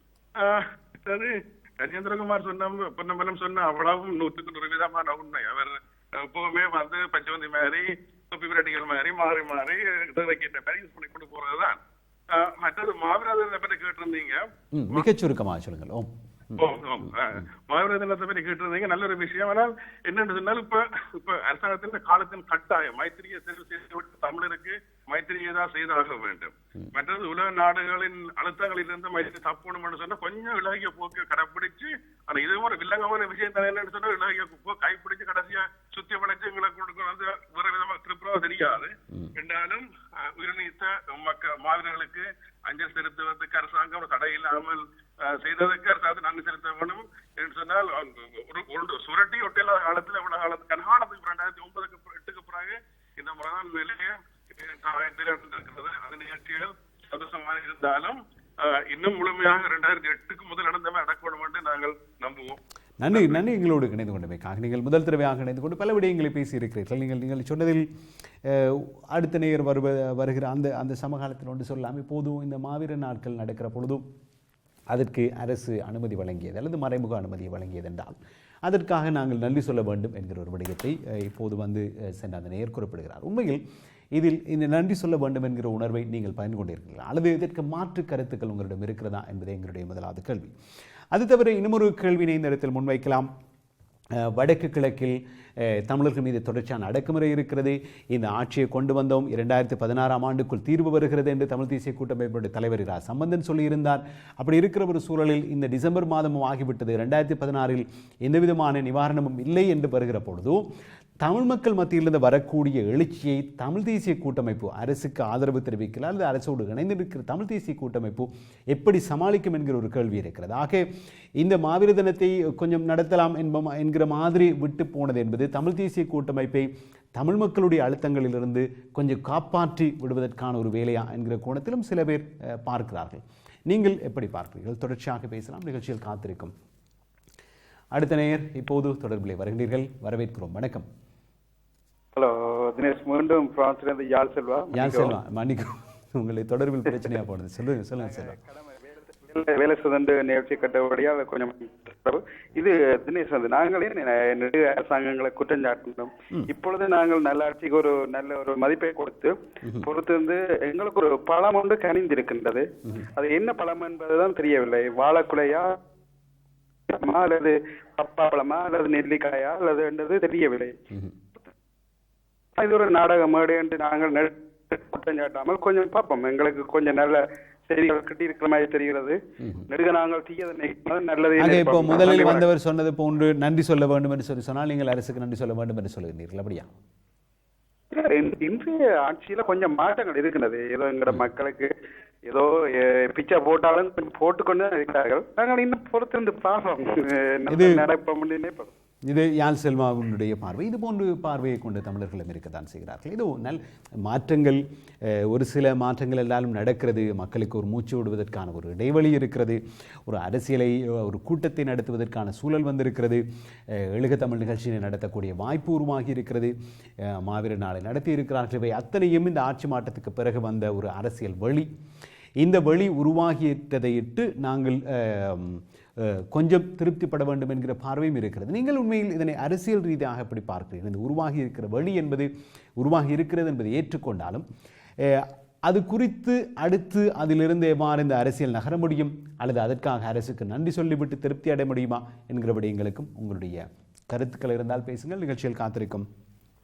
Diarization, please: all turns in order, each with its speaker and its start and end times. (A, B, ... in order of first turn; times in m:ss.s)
0:00.4-0:15.0 A
0:14.7-0:17.1 B
0:16.5-1:02.6 A
1:03.0-1:07.9 B
1:03.1-1:03.4 A
1:08.4-1:14.0 B
1:14.9-1:23.6 B
1:24.1-1:30.5 B
1:31.1-1:33.3 B
1:34.2-1:50.6 B
1:51.2-2:00.8 B
2:01.4-2:16.5 B
2:17.9-2:20.8 B
2:22.2-2:25.1 C
2:24.7-2:28.4 B
2:28.0-2:45.8 C
2:46.9-2:50.7 C
2:52.6-2:59.2 C
2:59.7-3:02.4 C
3:01.4-3:06.7 B
3:07.9-3:11.7 C
3:12.2-3:18.7 C
3:17.5-3:17.8 B
3:19.0-3:41.7 B
3:42.4-3:54.4 B
3:55.0-4:06.0 B